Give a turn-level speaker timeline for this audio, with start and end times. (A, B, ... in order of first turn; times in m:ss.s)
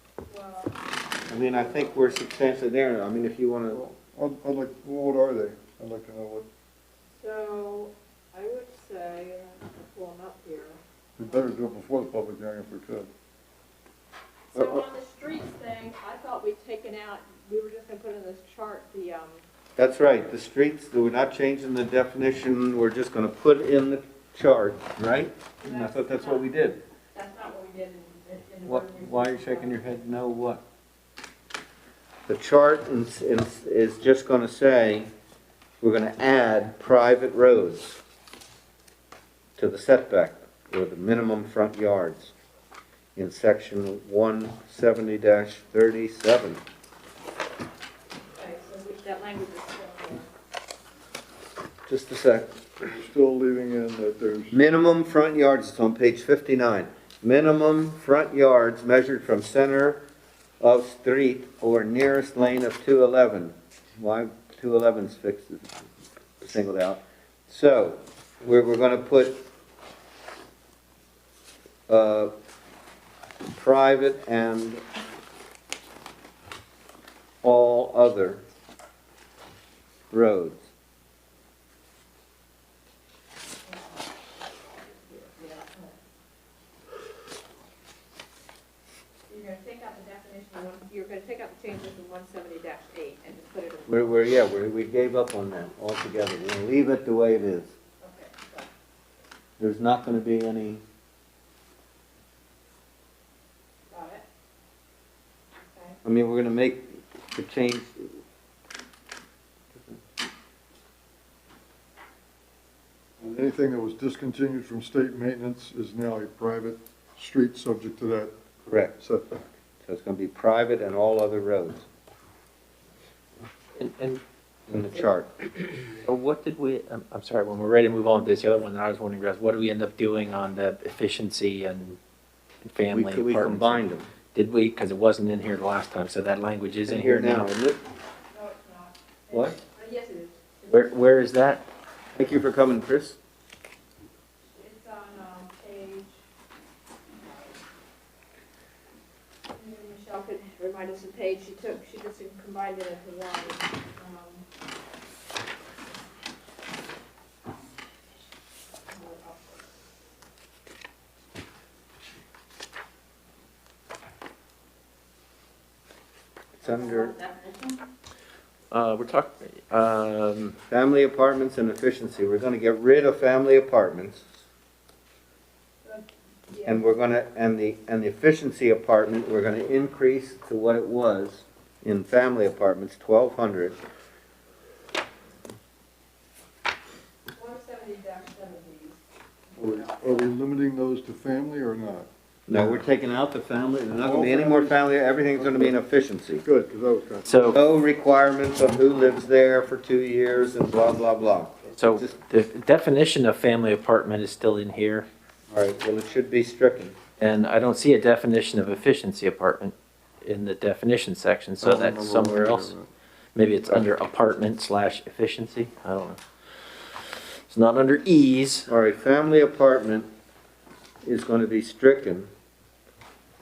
0:00.3-0:00.8 A
0:01.3-0:03.9 B
0:01.3-0:02.2 A
0:03.7-0:06.5 C
0:07.2-0:10.8 A
0:11.2-0:13.1 C
0:14.5-0:19.4 A
0:14.5-0:14.8 B
0:19.8-0:26.8 B
0:25.6-0:26.5 A
0:27.1-0:29.9 A
0:28.6-0:30.6 B
0:32.3-0:35.1 B
0:35.8-0:38.0 B
0:39.6-0:42.3 B
0:43.2-0:46.6 B
0:48.4-0:50.3 A
0:51.9-0:52.5 B
0:52.8-0:54.6 C
0:54.5-1:00.0 B
1:00.6-1:05.7 B
1:06.4-1:09.4 B
1:11.9-1:12.3 B
1:13.5-1:14.8 B
1:17.4-1:18.4 B
1:20.1-1:20.6 B
1:23.6-1:24.1 A
1:24.8-1:26.0 A
1:29.3-1:34.1 A
1:33.9-1:37.7 B
1:38.0-1:38.7 A
1:39.6-1:40.8 B
1:43.9-1:44.2 A
1:45.6-1:46.0 A
1:46.0-1:48.2 B
1:53.2-1:58.3 C
1:58.7-1:58.9 B
1:59.0-1:59.4 C
1:59.8-2:01.9 B
2:03.8-2:04.2 D
2:04.7-2:05.3 B
2:05.6-2:12.0 D
2:12.6-2:17.5 D
2:12.9-2:14.1 B
2:16.9-2:17.8 B
2:18.3-2:20.9 A
2:19.3-2:19.6 B
2:20.7-2:21.6 D
2:22.2-2:23.2 B
2:24.5-2:26.2 A
2:27.1-2:27.6 A
2:29.5-2:34.4 A
2:38.9-2:39.7 A
2:46.6-2:47.2 B
2:46.6-2:47.8 A
2:48.7-2:50.6 D
2:50.7-2:54.2 B
2:55.8-2:56.8 A
2:56.6-3:03.8 B
3:07.3-3:10.2 A
3:09.6-3:12.9 C
3:12.5-3:16.4 B
3:14.0-3:15.8 C
3:16.4-3:17.6 C
3:17.2-3:17.6 D
3:17.5-3:22.1 B
3:21.8-3:25.1 D
3:25.5-3:27.0 B
3:27.2-3:32.7 D
3:31.6-3:32.9 C
3:33.3-3:38.7 D
3:33.7-3:34.0 B
3:38.7-3:40.1 B
3:41.0-3:42.3 B